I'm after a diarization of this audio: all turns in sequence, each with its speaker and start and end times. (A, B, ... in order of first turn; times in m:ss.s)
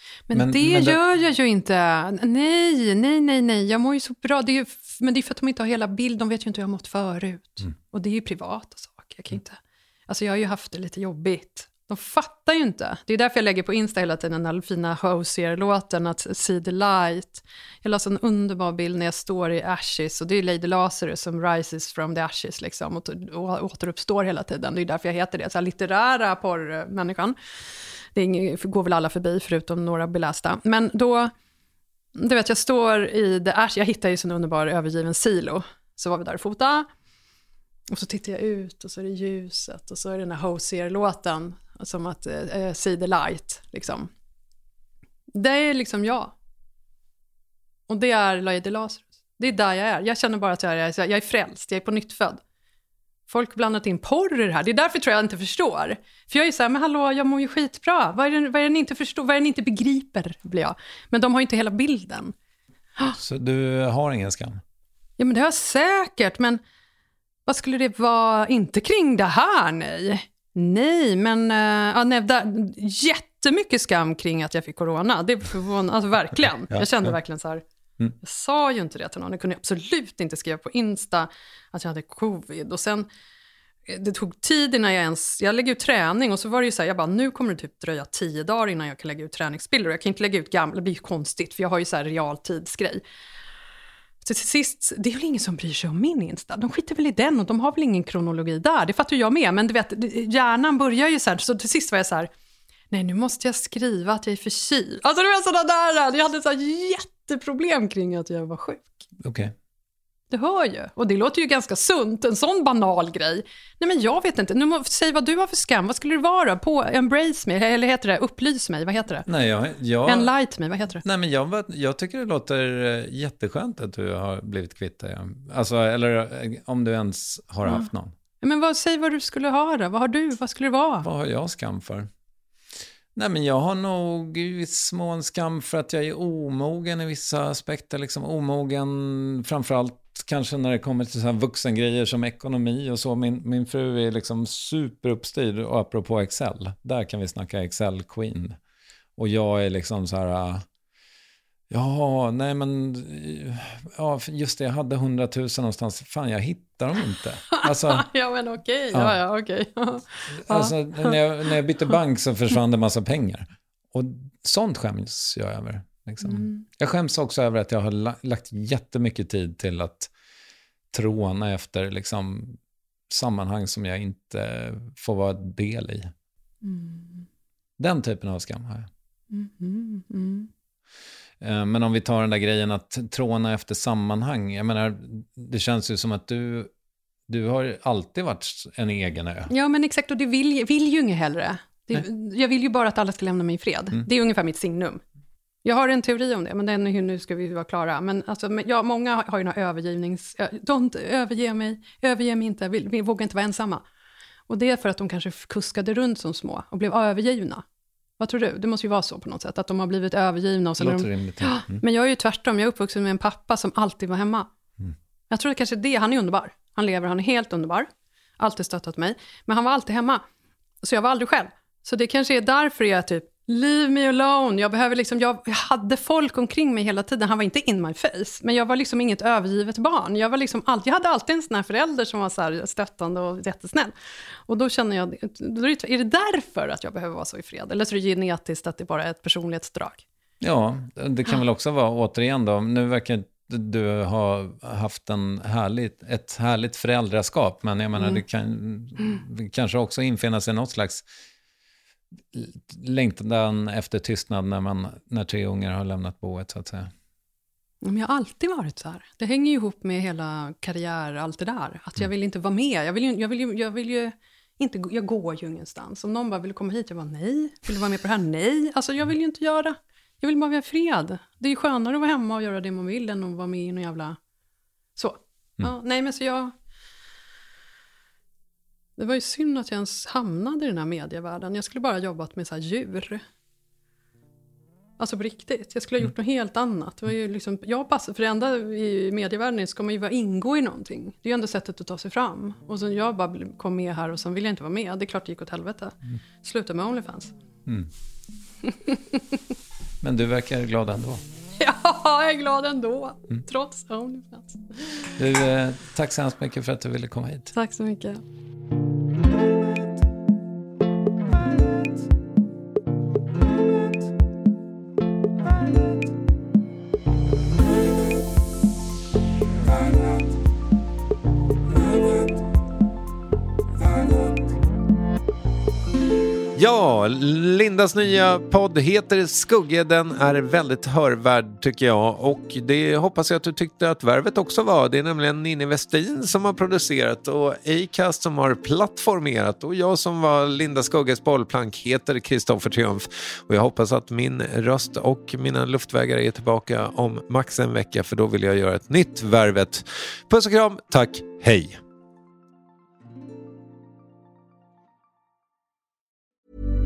0:00.3-0:27.4 A
0:00.3-0:01.0 B
0:28.1-0:31.3 A
0:32.2-0:36.9 A
0:37.9-0:44.1 A
0:45.3-0:46.3 A
0:47.9-0:52.4 A
0:53.3-1:02.3 A
1:03.2-1:04.6 B
1:05.2-1:06.6 A
1:07.4-1:17.6 A
1:16.7-1:17.1 B
1:18.2-1:23.1 A
1:23.9-1:33.0 A
1:34.2-1:42.3 A
1:42.9-1:49.0 A
1:49.2-1:49.5 B
1:50.3-1:59.3 A
1:59.2-2:00.3 B
2:00.0-2:01.0 A
2:01.0-2:08.1 B
2:08.4-2:11.1 A
2:11.0-2:12.1 B
2:13.2-2:28.6 B
2:29.2-2:30.6 B
2:31.7-2:38.0 B
2:37.6-2:41.2 A
2:38.9-2:39.2 B
2:40.3-2:50.1 B
2:46.2-2:46.6 A
2:50.9-2:52.6 B
2:53.1-2:56.1 B
2:56.6-2:57.2 A
2:57.8-2:58.9 B
2:59.3-3:00.5 A
3:01.4-3:06.7 B
3:07.3-3:09.5 B
3:09.5-3:15.0 A
3:15.6-3:23.8 A
3:24.5-3:27.6 A
3:28.2-3:34.5 A
3:30.8-3:31.8 B
3:35.3-3:40.2 A
3:40.8-3:53.9 A
3:54.5-4:00.0 A
4:00.4-4:11.0 B
4:12.3-4:16.9 B
4:17.8-4:34.2 A
4:35.0-4:36.5 A
4:39.0-4:43.2 A
4:45.0-4:57.3 A
4:58.6-4:59.2 A
5:00.0-5:01.2 B
5:01.6-5:04.8 A
5:05.2-5:07.5 B
5:07.5-5:08.2 A
5:26.6-5:51.8 C